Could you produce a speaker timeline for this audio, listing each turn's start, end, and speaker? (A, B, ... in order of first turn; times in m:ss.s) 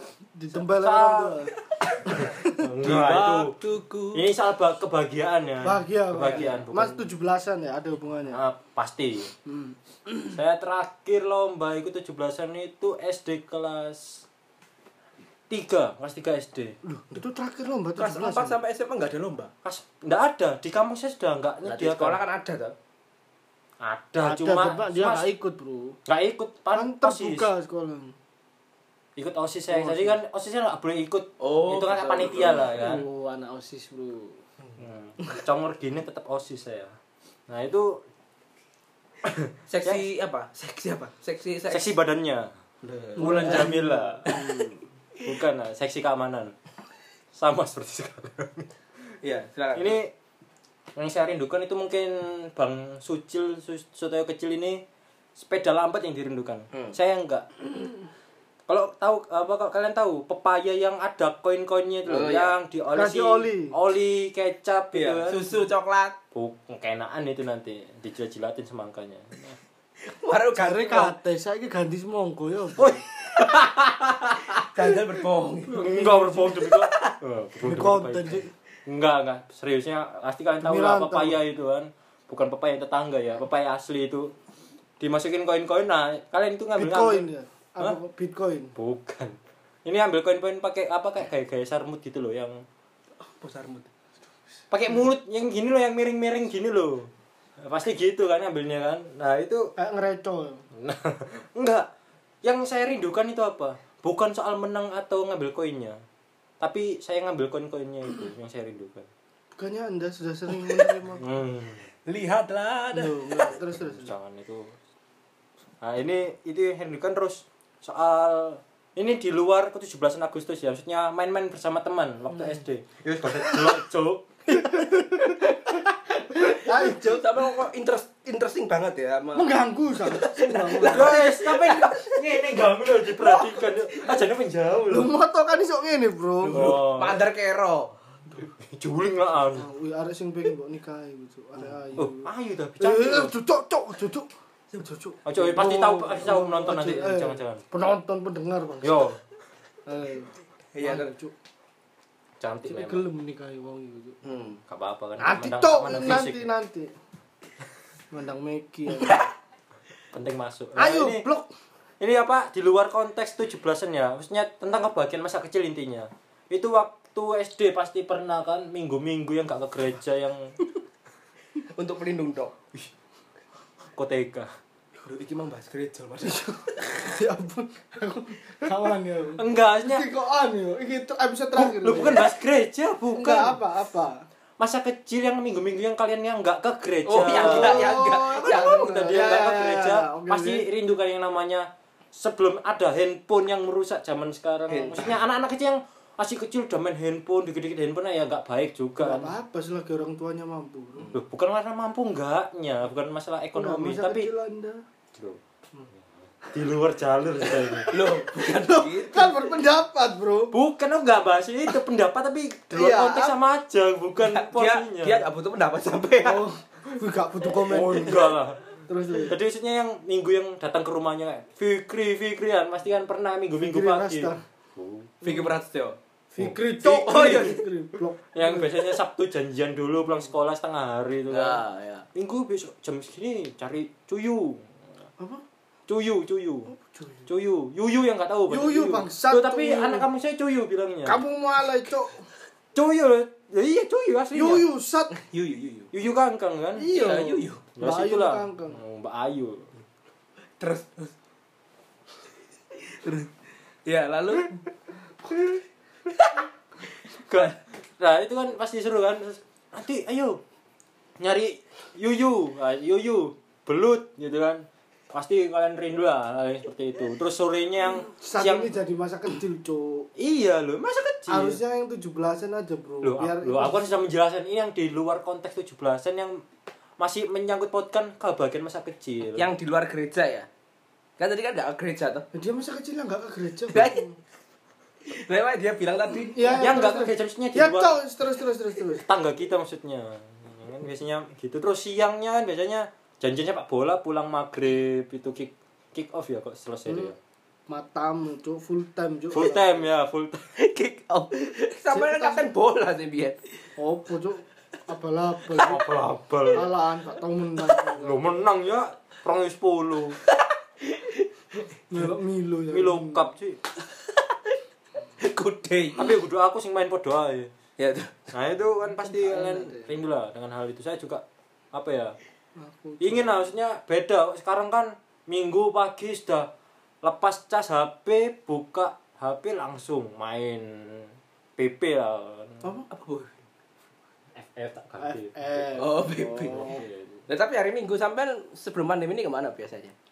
0:00.3-0:01.5 A
0:00.5-0:01.4 B
0:02.1-0:03.6 B
0:02.1-0:02.6 A
0:02.8-0:04.3 C
0:04.1-0:07.1 B
0:05.6-0:08.4 A
0:08.3-0:09.3 B
0:09.4-0:10.3 A
0:10.3-0:14.2 B
0:15.5-0:16.8 B
0:16.8-0:18.6 A
0:18.0-0:19.5 C
0:19.6-0:22.2 B
0:21.6-0:22.7 C
0:23.8-0:25.2 B
0:24.2-0:26.0 A
0:26.1-0:27.5 B
0:26.7-0:28.1 A
0:29.2-0:33.0 B
0:29.7-0:30.2 A
0:31.4-0:32.8 C
0:32.6-0:34.4 A
0:34.8-0:36.9 B
0:37.5-0:38.0 B
0:39.2-0:40.0 B
0:39.7-0:41.9 C
0:41.7-0:42.5 B
0:42.8-0:44.6 C
0:43.2-0:44.3 B
0:43.2-0:44.8 A
0:45.2-0:46.5 B
0:47.3-0:48.7 B
0:49.2-0:50.0 C
0:49.7-0:50.1 B
0:51.0-0:54.8 B
0:55.4-0:57.5 B
0:58.7-1:05.5 B
1:02.0-1:02.6 C
1:02.9-1:03.7 A
1:04.9-1:06.2 C
1:06.3-1:09.6 B
1:10.0-1:11.1 C
1:10.5-1:13.0 A
1:12.8-1:14.4 B
1:13.3-1:16.1 C
1:15.7-1:24.3 B
1:15.8-1:16.7 A
1:16.6-1:17.2 C
1:17.6-1:18.5 A
1:20.6-1:21.4 A
1:25.0-1:27.2 B
1:26.8-1:28.7 A
1:28.7-1:32.6 B
1:33.2-1:33.9 C
1:34.7-1:39.7 B
1:39.8-1:40.6 A
1:40.7-1:41.9 B
1:42.4-1:46.0 B
1:46.6-1:49.1 B
1:49.6-1:51.2 A
1:51.2-1:51.9 B
1:52.0-1:53.6 C
1:52.9-1:54.1 A
1:53.7-1:54.8 B
1:55.8-2:04.6 B
2:04.5-2:05.5 A
2:05.4-2:14.2 C
2:06.4-2:07.4 A
2:09.3-2:11.3 A
2:10.9-2:15.1 B
2:14.9-2:16.8 A
2:16.4-2:17.9 C
2:16.5-2:17.2 B
2:18.4-2:19.7 B
2:19.5-2:22.3 A
2:22.0-2:23.3 B
2:22.8-2:29.1 A
2:25.2-2:27.6 B
2:28.8-2:29.2 B
2:29.8-2:31.3 A
2:30.7-2:31.1 C
2:32.4-2:33.0 B
2:32.7-2:34.2 A
2:34.2-2:34.6 C
2:34.7-2:36.5 B
2:35.2-2:36.9 A
2:38.1-2:39.2 A
2:39.0-2:39.2 C
2:40.1-2:41.2 B
2:40.8-2:41.5 A
2:42.0-2:50.5 B
2:51.7-2:52.6 C
2:54.0-2:54.5 B
2:55.0-2:57.1 C
2:56.4-3:02.3 A
2:59.4-3:00.1 B
3:01.6-3:03.6 B
3:03.1-3:04.2 A
3:04.6-3:19.3 B
3:07.0-3:09.3 C
3:07.2-3:10.7 A
3:14.7-3:15.2 C
3:19.0-3:21.1 A
3:21.1-3:24.3 B
3:23.6-3:24.8 A
3:25.1-3:25.4 B
3:26.4-3:27.9 B
3:27.9-3:29.5 C
3:27.9-3:30.5 A
3:30.5-3:35.2 B
3:32.7-3:33.3 A
3:34.2-3:36.4 C
3:36.2-3:38.4 A
3:37.7-3:38.7 B
3:38.9-3:39.4 A
3:39.2-3:45.4 B
3:43.6-3:44.4 A
3:45.2-3:46.0 C
3:45.2-3:45.5 A
3:46.3-3:48.9 A
3:46.4-3:47.5 B
3:46.8-3:47.6 C
3:48.3-3:51.6 B
3:51.3-3:52.0 C
3:52.1-3:54.6 B
3:55.9-3:56.7 B
3:56.8-3:57.2 A
3:57.3-4:01.2 B
3:58.5-4:00.1 A
4:01.0-4:02.2 A
4:02.7-4:04.6 B
4:04.3-4:05.2 A
4:05.1-4:05.9 C
4:05.9-4:06.9 B
4:06.8-4:08.8 A
4:06.9-4:07.6 C
4:07.8-4:09.7 B
4:10.6-4:11.1 C
4:12.7-4:14.6 C
4:15.2-4:16.4 C
4:17.1-4:17.6 C
4:17.3-4:20.4 B
4:21.2-4:28.7 B
4:28.2-4:30.1 A
4:30.2-4:31.6 B
4:31.3-4:34.0 A
4:33.0-4:36.4 B
4:37.0-4:39.5 B
4:39.4-4:40.5 C
4:41.2-4:42.3 C
4:42.3-4:44.1 A
4:43.7-4:44.1 C
4:45.0-4:46.7 C
4:46.3-4:49.0 A
4:46.6-4:48.0 B
4:49.0-4:57.2 B
4:57.7-4:59.8 A
4:59.3-5:00.4 B
5:00.6-5:03.6 C
5:01.9-5:02.5 A
5:03.8-5:05.8 A
5:05.5-5:06.7 B
5:06.5-5:08.3 A
5:08.0-5:10.2 B
5:10.2-5:11.7 C
5:11.9-5:13.3 A
5:12.7-5:13.6 B
5:13.9-5:14.6 C
5:15.2-5:16.1 C
5:16.0-5:17.5 B
5:17.8-5:18.3 C
5:18.3-5:22.2 B
5:19.0-5:19.9 A
5:22.6-5:23.5 A
5:23.0-5:26.5 B
5:27.0-5:32.7 B
5:32.6-5:33.4 C
5:34.4-5:35.9 B
5:35.0-5:36.8 A
5:35.8-5:39.9 C
5:36.4-5:37.2 B